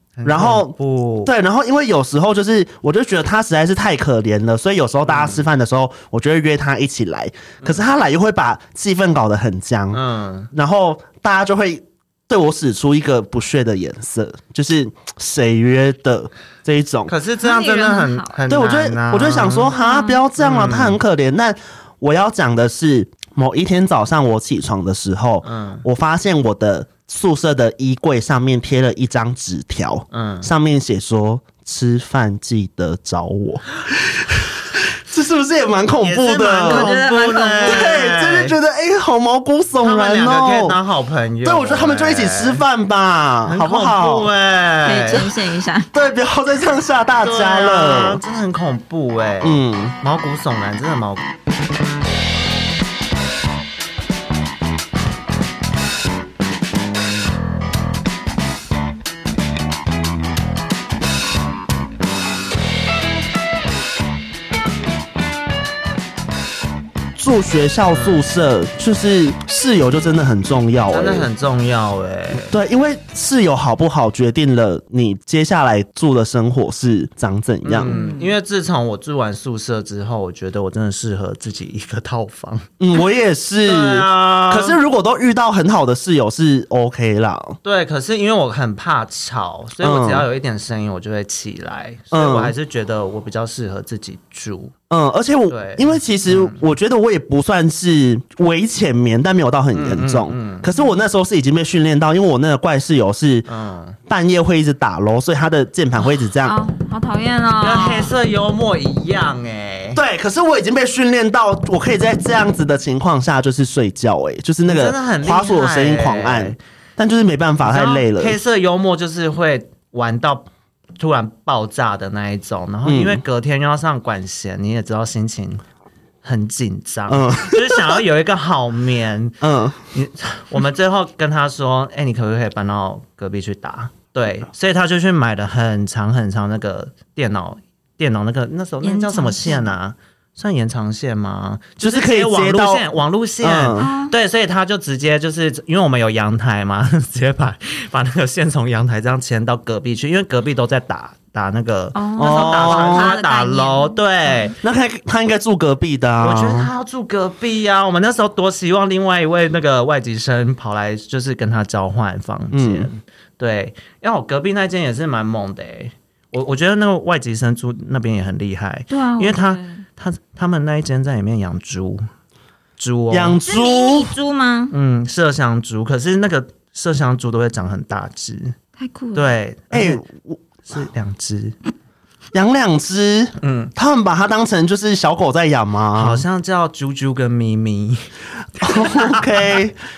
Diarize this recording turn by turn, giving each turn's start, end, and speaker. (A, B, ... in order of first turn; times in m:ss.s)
0:00.2-0:01.3 A
0:00.2-0:17.1 B
0:05.1-0:05.4 A
0:09.9-0:10.5 A
0:17.1-0:19.7 A
0:17.4-0:18.4 C
0:18.5-0:36.9 B
0:19.7-0:20.2 C
0:20.4-0:21.0 A
0:25.4-0:25.8 A
0:30.1-0:30.5 A
0:36.0-0:38.6 A
0:36.6-0:37.9 C
0:37.6-0:40.8 B
0:39.8-0:42.6 A
0:41.4-0:44.3 B
0:43.4-0:45.3 A
0:44.8-0:45.9 C
0:45.9-0:48.2 B
0:47.2-0:51.3 A
0:49.4-0:50.0 B
1:07.2-1:11.3 B
1:07.9-1:08.2 A
1:10.9-1:12.6 A
1:12.5-1:18.0 B
1:17.6-1:22.7 A
1:17.9-1:18.3 C
1:22.8-1:27.6 B
1:23.6-1:24.8 A
1:27.6-1:34.7 A
1:29.8-1:30.3 B
1:32.1-1:32.5 B
1:34.9-1:43.5 B
1:35.5-1:36.6 A
1:39.7-1:40.7 A
1:43.5-1:44.0 A
1:44.1-1:46.6 B
1:46.4-1:48.1 C
1:47.6-1:50.0 A
1:50.0-1:58.4 B
1:54.7-1:56.6 A
1:57.6-2:00.5 A
2:01.0-2:05.6 A
2:02.8-2:03.2 B
2:06.2-2:09.4 A
2:07.1-2:08.0 B
2:09.4-2:09.8 B
2:09.9-2:34.6 A
2:18.8-2:19.7 C
2:21.8-2:22.8 B
2:23.4-2:23.9 B
2:23.8-2:24.1 C
2:32.0-2:34.5 C
2:32.2-2:33.2 B
2:34.6-2:36.7 B
2:36.2-2:52.0 A
2:42.5-2:42.9 B
2:48.9-2:49.8 C
2:52.8-2:53.4 A
2:53.1-2:54.1 B
2:53.5-2:54.7 C
2:54.7-2:58.6 A
2:58.8-2:59.3 C
2:59.1-3:00.0 A
2:59.7-3:00.4 B
3:00.7-3:01.6 A
3:02.3-3:06.2 B
3:03.4-3:03.7 A
3:06.0-3:09.6 A
3:08.6-3:09.8 B